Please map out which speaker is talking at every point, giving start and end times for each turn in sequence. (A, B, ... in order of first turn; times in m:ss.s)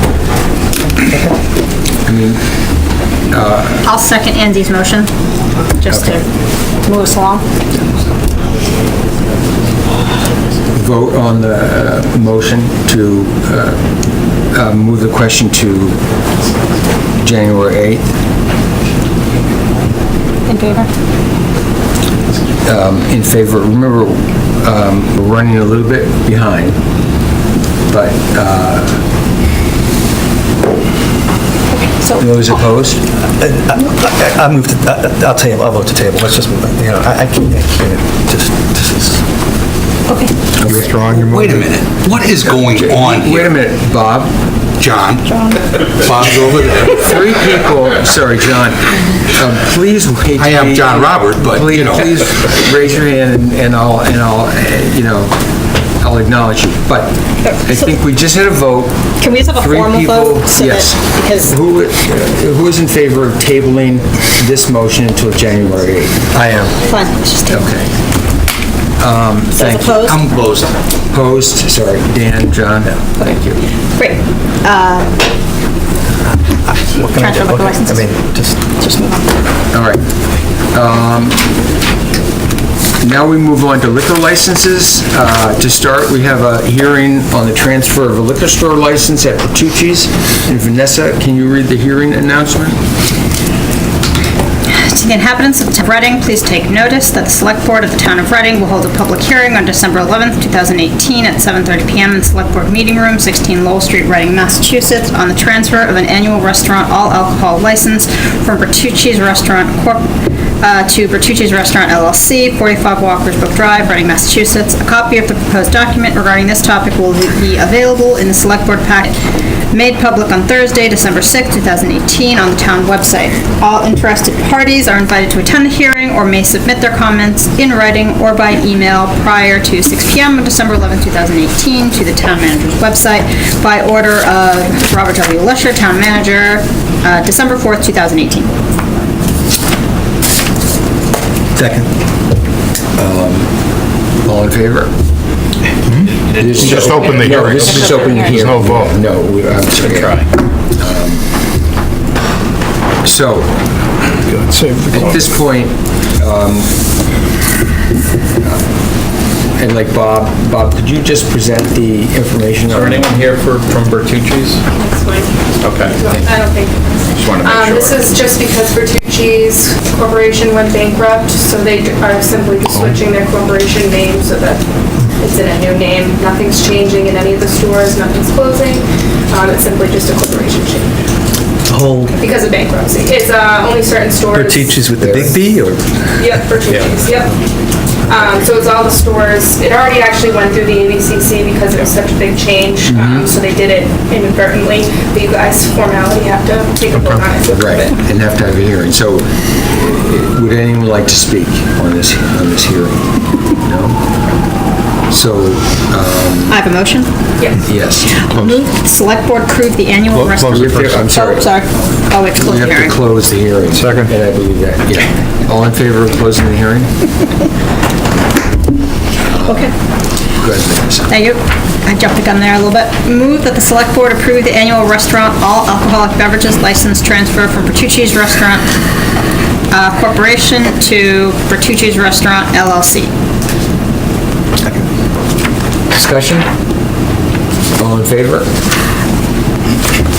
0:02.0-0:02.4 A
0:03.3-0:03.8 A
0:03.8-0:05.1 B
0:05.8-0:06.3 B
0:05.9-0:06.2 A
0:06.8-0:07.4 B
0:10.7-0:13.8 A
0:14.5-0:16.0 A
0:17.2-0:18.1 A
0:20.5-0:20.9 B
0:22.6-0:26.8 A
0:27.9-0:29.0 A
0:31.7-0:32.6 B
0:32.2-0:33.0 A
0:33.2-0:39.2 C
0:40.1-0:40.4 B
0:40.6-0:41.2 A
0:40.6-0:41.7 D
0:41.2-0:43.5 E
0:42.3-0:44.3 A
0:44.8-0:45.2 E
0:45.2-0:45.6 B
0:46.0-0:47.0 E
0:46.8-0:55.4 A
0:50.4-0:52.2 E
0:56.0-0:57.1 A
0:57.4-0:57.9 B
0:57.6-1:06.4 A
0:59.2-1:01.5 B
1:06.4-1:06.7 C
1:06.8-1:07.7 B
1:07.5-1:07.9 A
1:09.0-1:10.3 A
1:09.5-1:10.3 B
1:10.1-1:10.7 E
1:11.1-1:13.0 A
1:13.2-1:15.2 B
1:16.7-1:18.6 C
1:17.0-1:19.3 B
1:19.7-1:20.0 A
1:20.7-1:21.4 A
1:23.0-1:32.8 A
1:34.7-1:50.0 B
1:50.6-1:59.2 B
1:59.7-2:18.5 B
2:21.6-2:21.9 C
2:23.0-2:23.5 A
2:24.2-2:24.9 A
2:25.9-2:27.9 F
2:26.4-2:31.3 A
2:26.5-2:29.0 D
2:26.9-2:28.6 B
2:29.8-2:30.3 F
2:33.0-2:33.5 A
2:34.3-2:35.3 D
2:34.9-2:36.8 A
2:39.6-2:43.1 A
2:42.7-2:44.6 F
2:44.7-3:00.9 G
2:45.6-2:46.3 F
2:47.2-2:48.1 F
3:01.7-3:02.2 C
3:02.2-3:05.2 G
3:04.3-3:05.8 C
3:05.0-3:05.6 A
3:06.2-3:07.4 G
3:06.7-3:07.0 F
3:08.1-3:17.9 G
3:12.9-3:13.3 A
3:17.5-3:23.0 A
3:23.6-3:24.0 A
3:25.1-3:26.6 A
3:26.5-3:27.1 B
3:27.4-3:27.7 G
3:27.6-3:28.1 A
3:28.0-3:33.0 B
3:28.3-3:28.6 D
3:30.1-3:31.1 D
3:30.5-3:31.5 A
3:32.4-3:36.9 A
3:33.7-3:34.1 D
3:39.3-3:39.7 A
3:39.4-3:39.7 B
3:40.4-3:41.1 A
3:41.1-3:48.7 B
3:49.7-3:53.1 B
3:55.9-3:56.5 A
3:57.8-3:58.5 A